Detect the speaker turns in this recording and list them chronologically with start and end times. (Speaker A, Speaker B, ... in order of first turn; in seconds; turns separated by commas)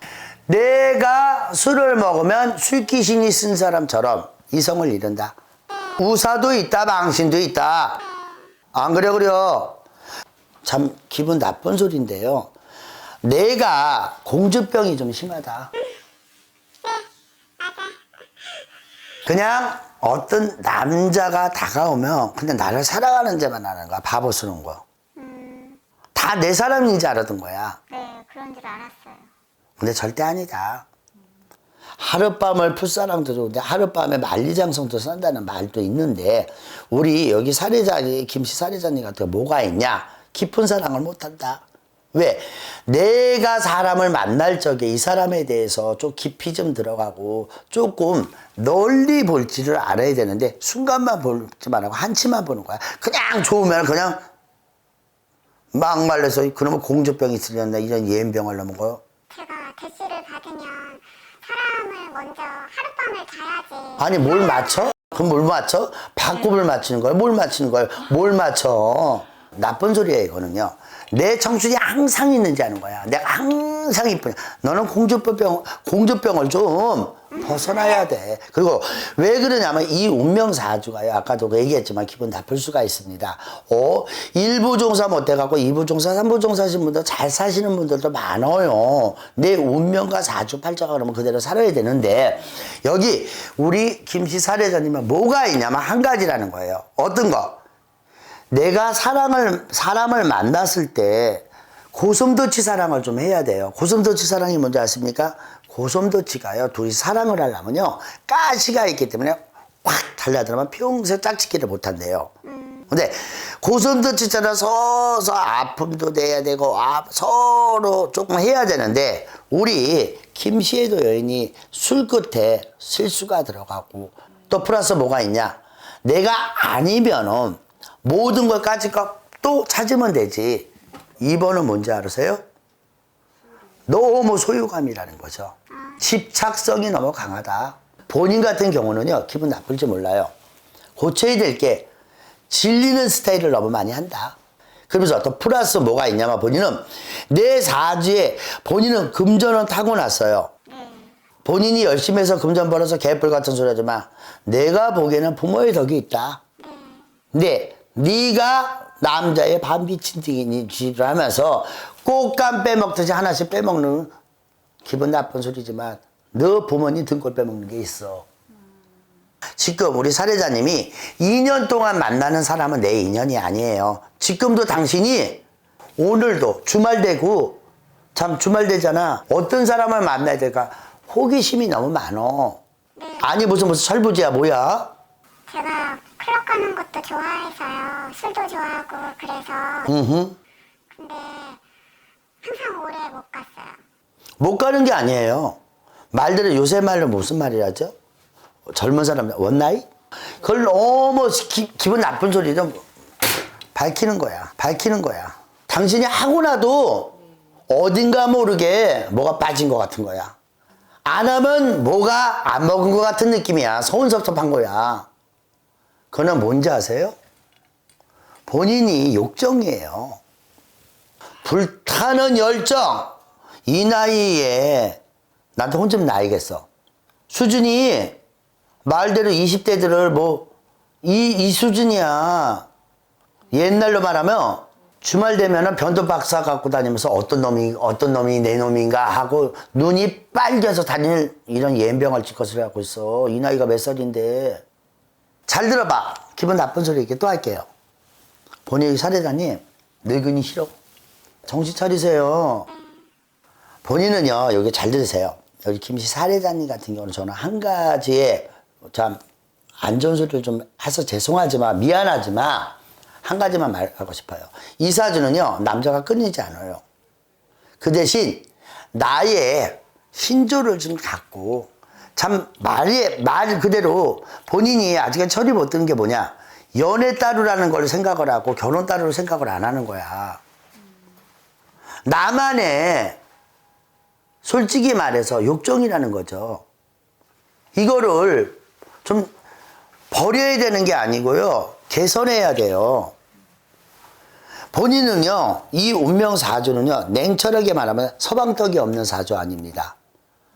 Speaker A: 0.5-8.0, Speaker A: 8.7-9.8, Speaker A: 10.6-12.5, Speaker A: 13.2-15.7, Speaker B: 17.6-18.0, Speaker A: 19.3-24.8, Speaker B: 25.2-25.8, Speaker A: 26.1-27.8, Speaker B: 27.9-29.3, Speaker A: 29.8-30.9, Speaker A: 32.0-54.2, Speaker A: 55.7-59.0, Speaker B: 59.3-64.9, Speaker A: 64.0-97.6, Speaker A: 98.5-112.3, Speaker B: 112.5-112.9, Speaker A: 112.9-132.4, Speaker A: 133.9-140.3, Speaker A: 141.0-141.9, Speaker A: 142.5-144.4, Speaker A: 144.9-150.5, Speaker B: 150.7-151.1, Speaker A: 151.4-156.4, Speaker B: 156.6-157.0, Speaker A: 157.3-164.1, Speaker A: 164.8-168.3, Speaker A: 169.6-175.4, Speaker A: 176.0-177.6, Speaker A: 178.2-182.6, Speaker B: 183.0-183.3, Speaker A: 183.2-184.9, Speaker B: 185.5-189.9, Speaker A: 189.9-190.4, Speaker B: 190.9-191.6, Speaker B: 192.4-193.8, Speaker A: 194.4-195.6, Speaker A: 196.1-197.9, Speaker A: 198.7-202.8, Speaker A: 203.7-207.2, Speaker A: 207.7-210.3, Speaker A: 211.1-215.1, Speaker A: 216.1-217.2, Speaker A: 218.5-220.2, Speaker A: 221.4-225.0, Speaker A: 225.6-226.7, Speaker A: 227.3-228.2, Speaker A: 228.8-230.5, Speaker A: 231.0-232.7, Speaker A: 233.5-244.6, Speaker A: 245.5-247.7, Speaker A: 248.7-250.8, Speaker A: 251.5-252.7, Speaker A: 253.8-259.2, Speaker A: 259.8-266.8, Speaker A: 267.8-280.4, Speaker A: 282.1-283.2, Speaker A: 284.4-286.6, Speaker A: 287.8-289.3, Speaker A: 290.1-293.1, Speaker A: 294.7-300.0